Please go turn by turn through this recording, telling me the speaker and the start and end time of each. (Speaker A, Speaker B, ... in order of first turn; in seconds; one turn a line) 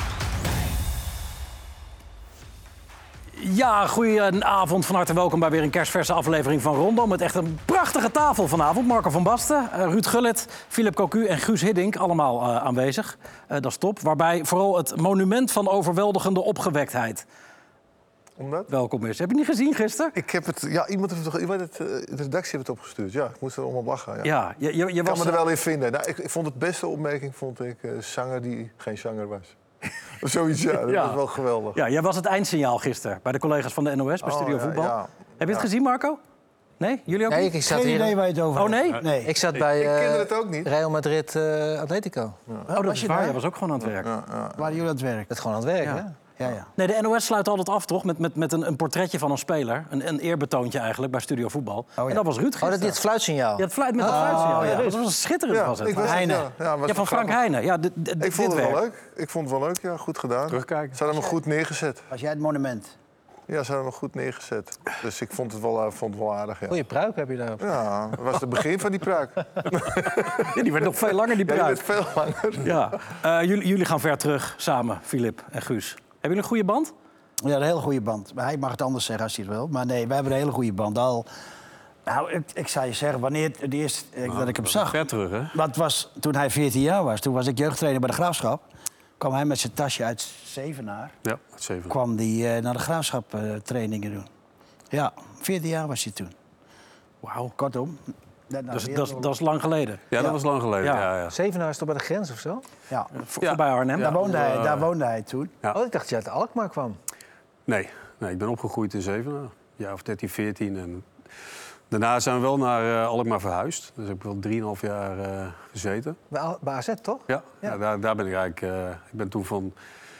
Speaker A: 3.3-17.2
Speaker B: 18.4-18.7
Speaker A: 18.7-20.1
Speaker B: 20.1-24.3
Speaker A: 24.2-25.5
Speaker B: 25.0-29.6
Speaker B: 30.2-31.8
Speaker A: 30.8-31.2
Speaker A: 31.7-36.2
Speaker B: 34.2-35.7
Speaker A: 36.8-37.5
Speaker C: 37.3-38.2
Speaker D: 37.6-39.4
Speaker A: 38.5-39.0
Speaker C: 39.2-42.4
Speaker B: 39.5-40.7
Speaker A: 42.7-44.1
Speaker D: 43.0-43.3
Speaker B: 44.0-44.7
Speaker D: 44.5-45.3
Speaker C: 45.3-46.1
Speaker D: 46.4-46.7
Speaker A: 46.8-53.0
Speaker D: 52.0-52.2
Speaker C: 52.6-55.0
Speaker A: 53.6-56.3
Speaker D: 54.0-54.9
Speaker B: 55.5-57.4
Speaker D: 56.0-56.5
Speaker A: 56.9-58.8
Speaker B: 58.2-62.1
Speaker E: 60.5-61.0
Speaker D: 62.1-62.9
Speaker B: 63.5-66.8
Speaker C: 66.7-67.8
Speaker B: 67.6-73.0
Speaker A: 70.5-71.8
Speaker A: 72.6-76.9
Speaker D: 77.4-81.3
Speaker D: 82.1-88.6
Speaker E: 84.2-85.6
Speaker D: 89.2-91.1
Speaker E: 91.2-91.9
Speaker D: 91.9-94.3
Speaker D: 94.9-96.3
Speaker A: 97.2-97.5
Speaker D: 97.5-99.3
Speaker A: 98.7-100.0
Speaker E: 100.1-101.3
Speaker A: 100.8-101.1
Speaker C: 101.3-102.6
Speaker A: 103.2-104.2
Speaker E: 103.4-104.9
Speaker D: 104.0-105.5
Speaker C: 105.7-107.0
Speaker E: 107.7-111.0
Speaker E: 111.9-116.2
Speaker C: 116.3-117.8
Speaker E: 117.3-119.7